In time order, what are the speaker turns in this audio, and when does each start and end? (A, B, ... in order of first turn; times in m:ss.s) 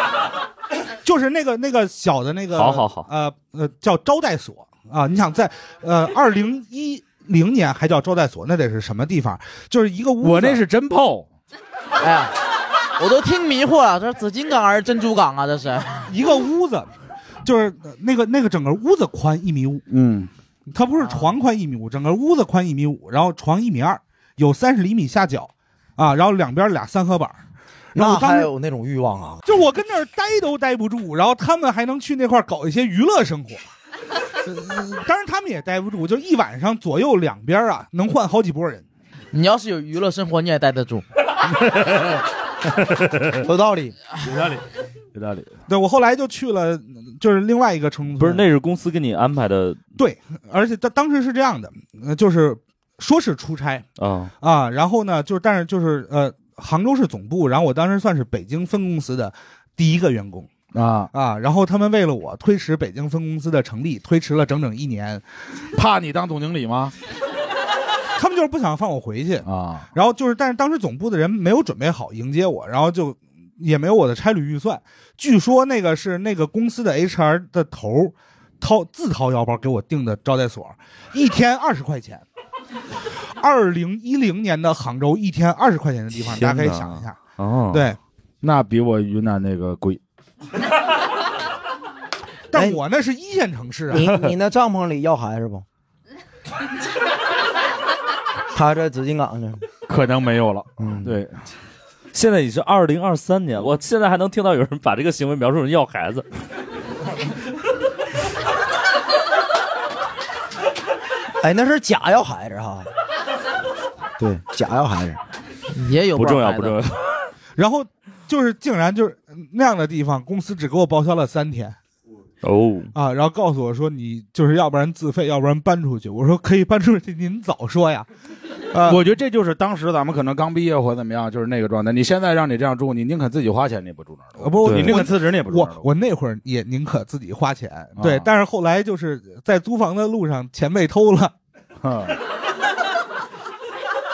0:01.0-0:10.6 A
0:02.6-0:03.1 B
0:10.2-0:11.3 C
0:12.0-0:12.3 D
0:13.0-0:16.1 D
0:16.1-0:16.9 A
0:17.4-0:19.8 A
0:19.9-0:20.3 C
0:20.7-0:27.4 A
0:28.0-0:28.5 A
0:28.0-0:29.4 E
0:29.5-0:33.6 A
0:34.4-0:38.8 A
0:39.3-0:41.0 D
0:41.6-0:43.4 C
0:43.4-0:44.0 E
0:44.2-0:44.6 C
0:45.2-0:45.5 C
0:45.7-0:48.4 A
0:48.2-0:49.8 B
0:50.0-0:53.8 A
0:54.0-0:54.3 B
0:54.4-1:00.5 A
1:00.7-1:01.1 C
1:01.1-1:05.2 A
1:05.8-1:06.9 C
1:08.2-1:22.2 A
1:09.5-1:09.8 C
1:23.4-1:27.2 A
1:26.2-1:27.9 B
1:27.7-1:28.0 A
1:28.4-1:30.0 C
1:32.5-1:34.1 A
1:32.5-1:32.8 E
1:33.9-1:35.7 E
1:38.5-1:39.6 E
1:39.9-1:41.3 C
1:40.8-1:41.2 E
1:42.1-1:46.2 B
1:51.4-1:52.9 E
1:54.2-1:55.2 E
1:55.7-1:56.8 D
1:56.2-1:57.0 B
1:57.6-2:01.8 A
2:02.4-2:02.9 B
2:03.0-2:08.1 A
2:08.7-2:09.0 A
2:08.8-2:15.9 C
2:14.4-2:21.3 A
2:14.6-2:15.0 B
2:18.0-2:18.3 C
2:21.8-2:22.2 C